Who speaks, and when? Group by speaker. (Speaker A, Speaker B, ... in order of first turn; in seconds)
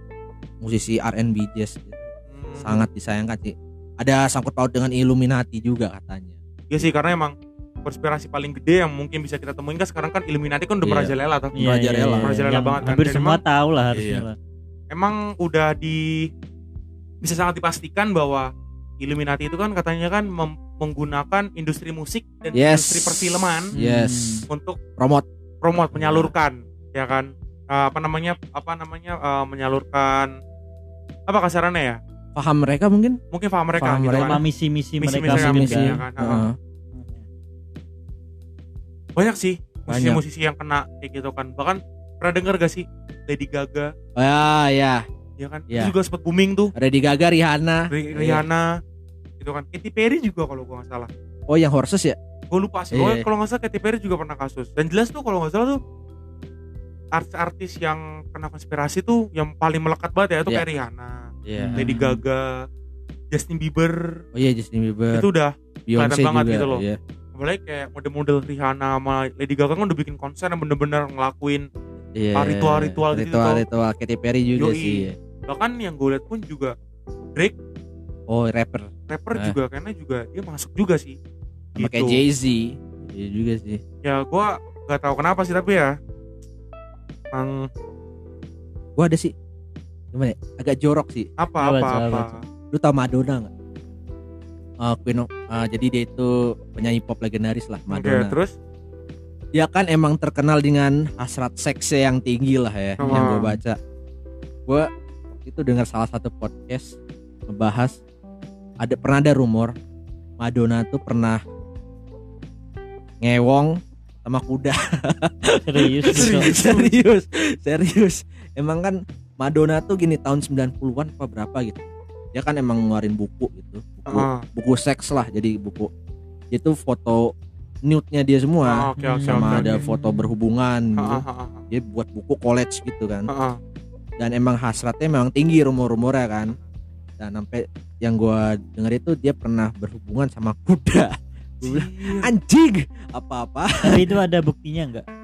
Speaker A: 0.6-2.0, 2.6-6.4, 10.8-12.4, 13.9-14.2, 22.5-24.4, 25.0-26.3, 32.3-33.2, 33.8-34.4, 35.3-36.5, 39.9-40.2, 44.1-45.0, 46.7-48.5, 51.5-52.2, 52.9-53.2, 61.5-62.0, 64.3-65.3, 65.9-67.0, 72.1-75.2, 78.3-79.5, 81.8-83.8, 89.0-89.3, 90.1-91.3, 92.7-93.5, 94.8-98.3, 99.5-103.8, 104.7-108.0, 108.8-109.8, 110.4-111.4, 113.2-121.8, 122.3-125.9, 126.5-127.3, 127.8-133.3, 134.2-136.5, 137.2-144.1
Speaker B: 2.3-2.8, 6.7-11.6, 12.2-13.4, 14.9-16.3, 17.2-23.7, 24.5-24.8, 25.6-30.3, 31.3-32.0, 33.3-34.4, 35.0-36.5, 39.1-43.9, 45.4-46.7, 47.9-48.8, 49.4-51.1, 52.5-55.8, 57.1-62.6, 63.3-64.2, 65.1-66.8, 67.3-71.7, 72.3-73.6, 74.6-76.7, 79.1-81.2, 81.8-82.2, 84.0-86.0, 87.3-87.7, 91.4-92.4, 97.9-98.5, 103.0-103.5, 116.1-116.9, 124.1-124.4, 128.7-129.8, 131.0-131.7, 133.3-133.6, 141.6-142.3
Speaker C: 11.5-14.3, 23.7-24.4, 34.2-36.0, 36.9-37.2, 61.6-62.2, 91.6-92.4, 103.0-103.4, 115.7-116.5, 129.0-130.3, 143.8-145.1